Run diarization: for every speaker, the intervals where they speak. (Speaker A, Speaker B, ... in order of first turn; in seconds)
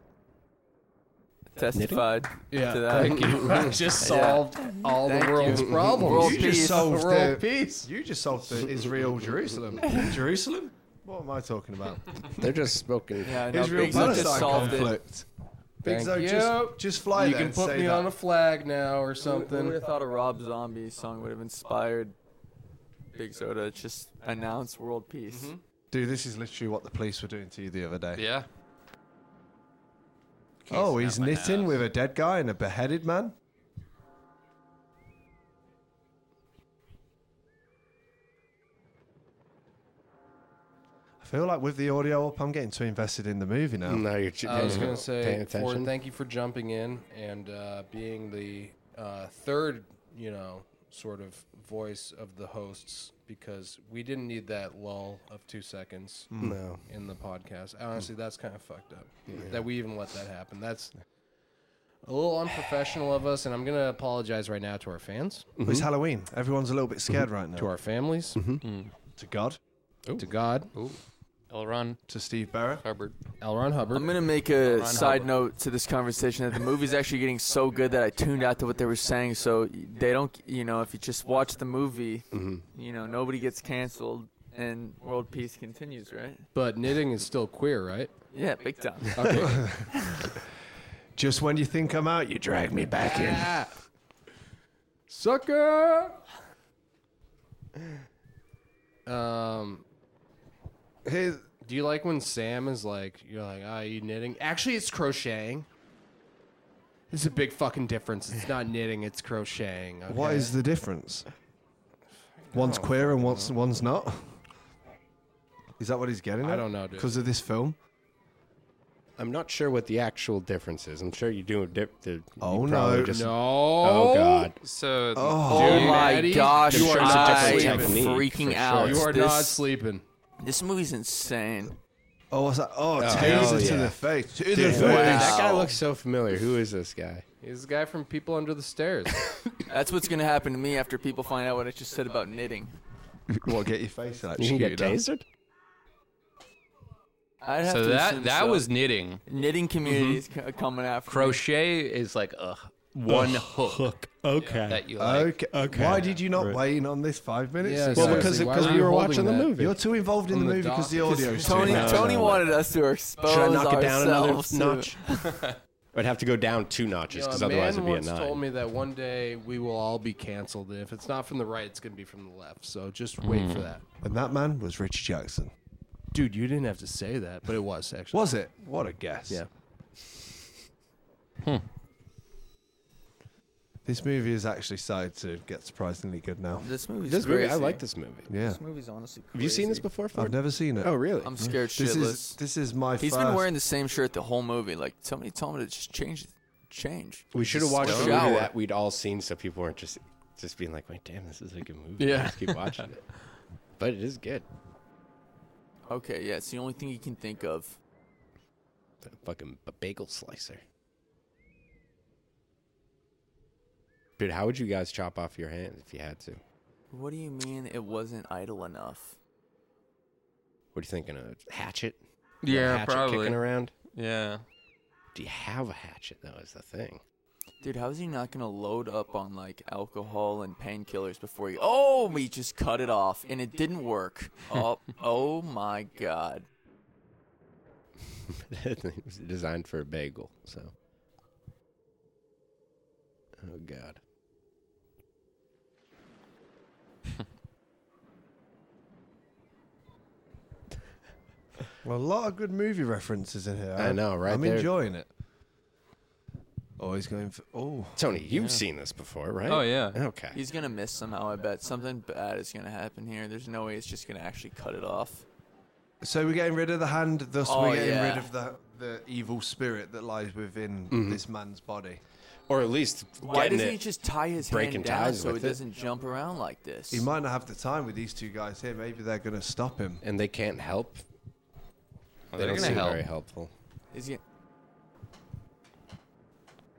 Speaker A: 1.5-7.0, 13.2-15.0, 19.2-22.1, 23.1-25.5, 73.9-86.5, 88.3-90.3, 125.5-129.6, 130.4-131.8, 134.6-135.8, 139.7-142.7, 147.4-148.7, 149.3-151.4, 161.1-165.4, 186.6-189.9, 191.2-192.4, 193.0-198.5, 202.0-202.7, 205.9-207.8, 216.9-219.2, 227.6-236.5, 260.3-265.2, 267.4-268.3, 273.2-277.1, 283.9-284.2
Speaker B: 1.7-2.1, 3.0-3.7, 5.5-6.2, 12.3-14.6, 43.9-45.9, 56.4-56.8, 59.3-59.6, 65.6-65.9, 68.4-68.6, 82.3-82.7, 119.2-124.6, 126.7-129.1, 133.0-137.2, 144.4-145.2, 153.1-154.9, 155.5-156.6, 157.9-159.8, 161.5-162.6, 163.2-165.1, 165.9-168.4, 187.1-188.3, 189.3-191.5, 197.3-203.1, 203.8-204.5, 209.0-210.6, 214.2-216.4, 220.7-223.7, 225.1-227.0, 238.3-240.7, 243.4-244.0, 253.8-254.7, 258.0-260.4, 270.9-271.2, 272.5-273.8, 274.4-275.6, 280.0-281.0, 282.3-283.5
Speaker C: 2.5-7.9, 15.8-19.8, 25.3-25.6, 44.4-56.3, 56.9-60.9, 62.1-65.5, 67.6-68.4, 70.2-70.7, 73.4-74.3, 86.5-88.1, 89.1-89.7, 93.0-93.8, 95.1-96.2, 99.1-99.8, 101.6-105.7, 107.1-110.5, 112.5-113.5, 116.4-117.2, 123.1-124.5, 125.5-128.1, 128.8-130.0, 133.1-133.7, 137.4-139.4, 157.6-159.5, 160.3-162.2, 167.1-173.8, 176.1-178.3
Speaker D: 6.1-12.6, 13.5-15.3, 15.8-18.1, 25.9-28.3, 30.7-33.4, 41.2-44.1, 56.3-56.6, 65.6-67.7, 69.2-69.6, 72.1-72.9, 89.3-89.9, 91.2-93.5, 101.0-101.5, 110.1-111.3, 112.5-114.4, 115.8-117.8, 122.4-123.2, 125.2-126.0, 132.3-135.4, 143.4-145.0, 155.0-158.9, 159.5-162.2, 174.0-175.5, 178.1-179.4, 183.8-186.7, 188.3-188.6, 190.1-193.5, 197.4-198.0, 251.8-255.1, 256.8-258.1, 266.0-272.0, 276.9-280.0, 282.5-282.8
Speaker E: 28.1-28.5, 30.7-31.8, 68.6-68.9, 70.7-72.0, 72.8-73.2, 74.5-75.3, 124.6-126.6, 147.6-149.2, 149.9-150.2, 151.1-156.3, 165.3-165.6, 173.2-173.7, 197.8-198.2, 222.4-224.4, 258.3-258.6, 259.5-260.0, 282.3-283.1